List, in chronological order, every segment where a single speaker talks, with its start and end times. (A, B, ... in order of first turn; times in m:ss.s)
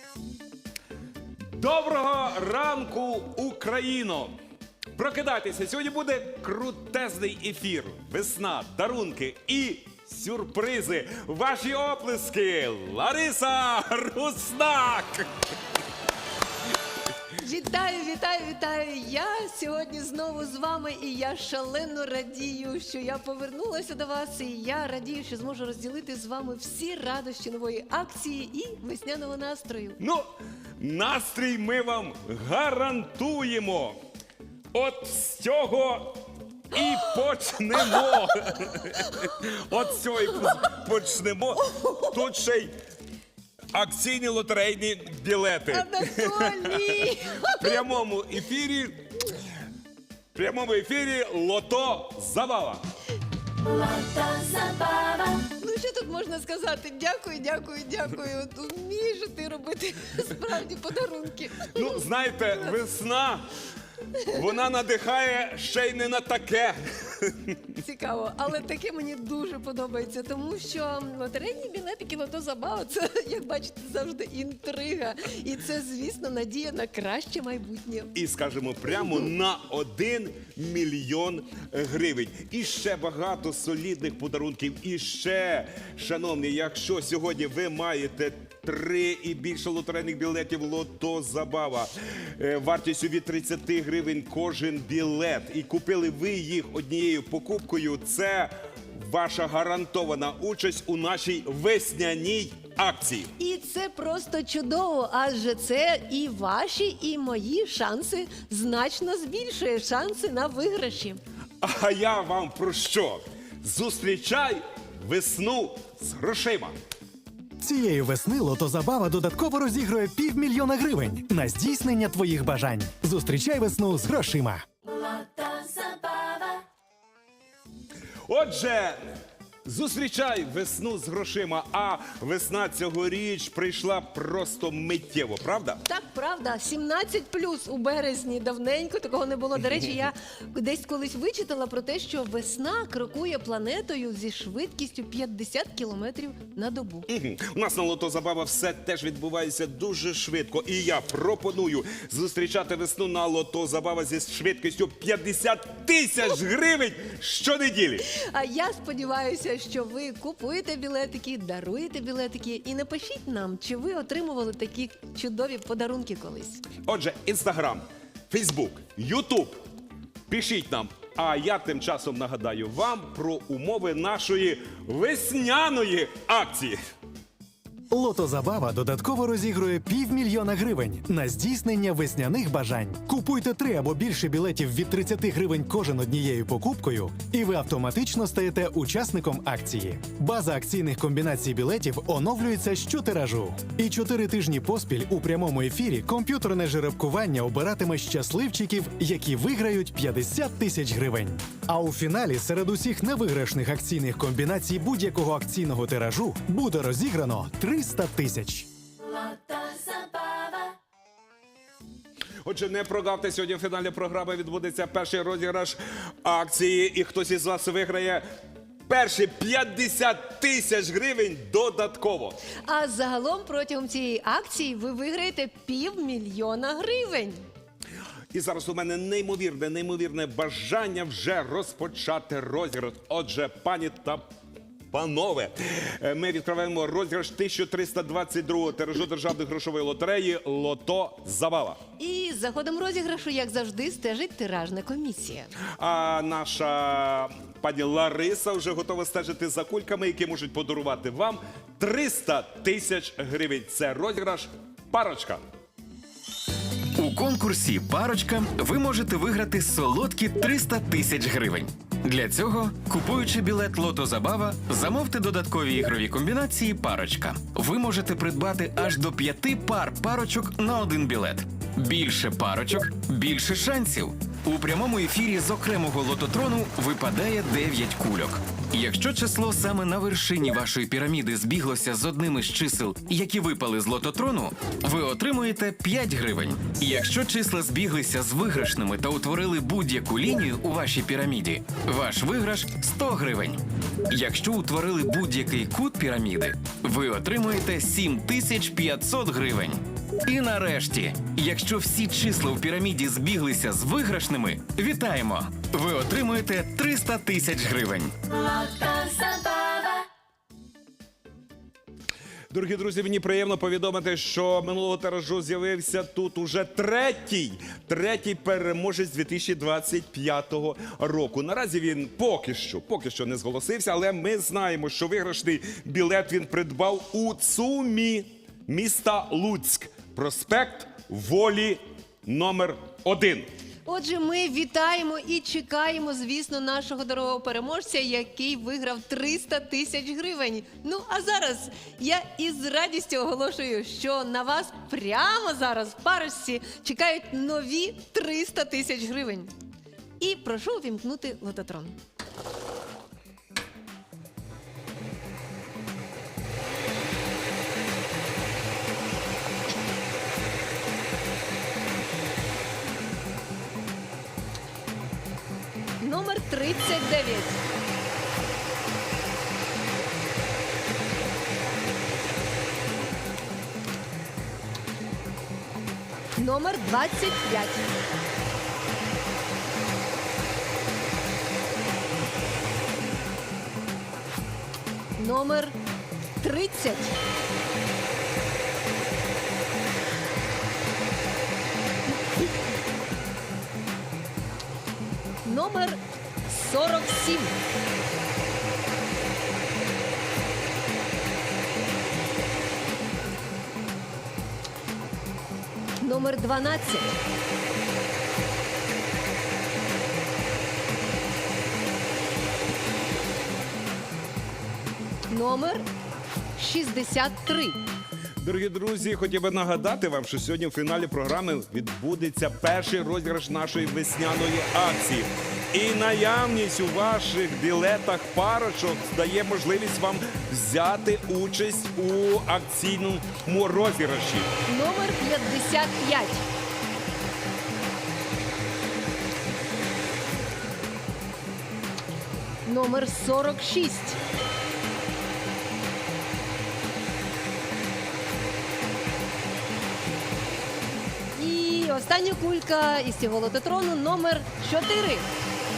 0:01.4-0:04.4 A
0:05.0-0:15.3 A
0:17.4-0:30.0 B
0:30.0-0:30.3 A
0:30.8-0:34.0 A
0:34.7-0:42.7 A
0:41.7-0:42.1 B
0:43.7-0:49.2 A
0:45.7-0:47.8 B
0:50.3-0:52.8 A
0:53.7-1:02.0 B
1:01.7-1:03.5 A
1:04.2-1:07.6 A
1:07.8-1:18.1 B
1:18.1-1:43.3 A
1:43.4-1:51.2 B
1:51.6-1:56.7 A
1:57.6-2:04.6 C
2:04.9-2:06.6 B
2:08.3-2:09.0 A
2:09.6-2:15.8 A
2:15.8-2:27.1 B
2:27.1-2:38.0 A
2:38.1-2:46.6 B
2:46.8-2:49.6 A
2:50.3-2:56.8 A
2:57.9-3:28.7 C
3:29.1-3:30.7 B
3:32.4-3:38.2 A
3:38.9-3:42.4 A
3:42.6-3:47.5 B
3:48.3-3:54.3 A
3:54.9-4:01.8 A
4:02.0-4:05.5 B
4:05.8-4:15.4 A
4:17.0-5:08.1 D
5:08.4-5:10.0 B
5:12.5-5:33.5 A
5:33.8-5:49.5 B
5:50.2-5:52.0 B
6:06.0-6:07.6 B
6:16.4-6:17.8 B
6:25.2-6:25.8 B
6:26.4-6:27.2 B
6:35.4-6:37.6 B
6:46.0-6:47.2 B
6:55.3-6:55.9 B
6:56.6-6:57.8 B
6:58.4-7:14.5 A
7:14.7-7:16.4 B
7:22.6-7:24.2 B
7:31.4-7:35.3 B